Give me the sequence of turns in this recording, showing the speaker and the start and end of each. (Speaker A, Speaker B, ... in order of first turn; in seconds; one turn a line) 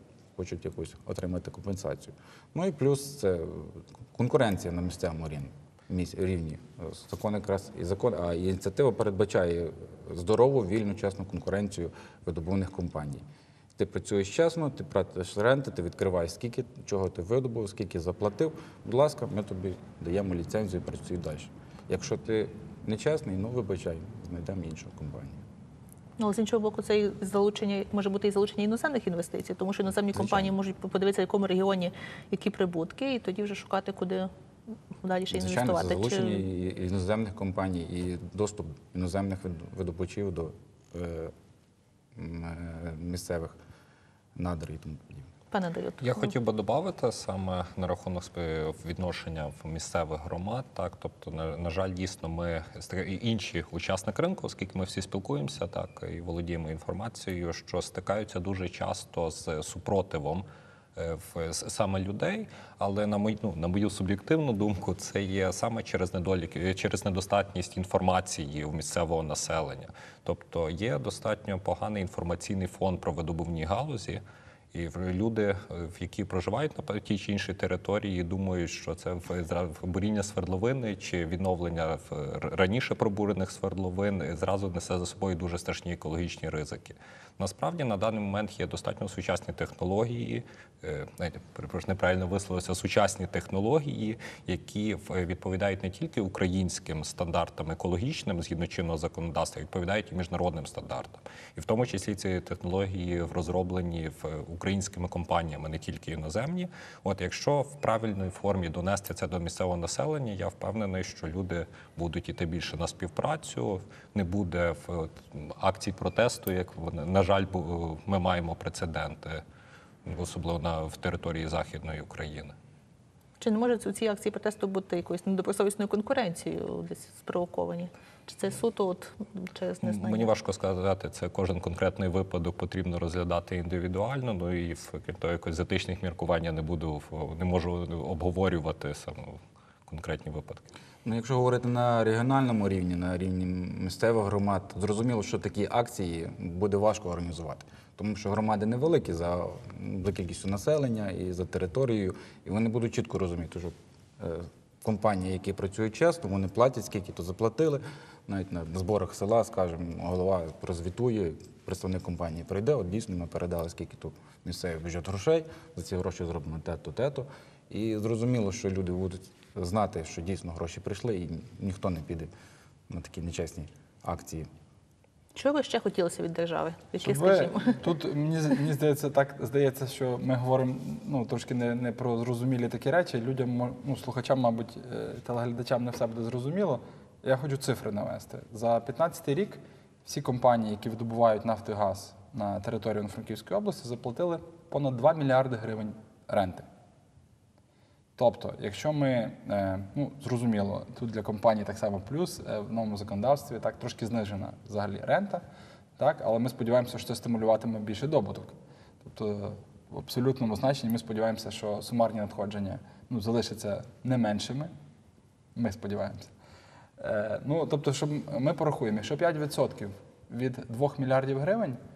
Speaker A: 0.3-13.2
Speaker A: 13.8-25.4
Speaker B: 26.2-34.3
Speaker A: 30.1-30.5
Speaker B: 35.0-36.4
Speaker A: 35.3-41.3
Speaker A: 42.1-43.5
Speaker A: 44.4-45.3
Speaker B: 45.5-46.3
Speaker C: 46.0-74.2
Speaker C: 74.7-119.4
Speaker C: 120.0-122.5
Speaker B: 123.4-130.3
Speaker C: 129.8-140.7
Speaker A: 141.0-172.3
Speaker A: 172.9-174.5
Speaker B: 175.3-177.8
Speaker D: 177.0-196.7
Speaker D: 198.2-205.4
Speaker D: 206.0-214.7
Speaker D: 215.6-216.3
Speaker D: 217.0-221.8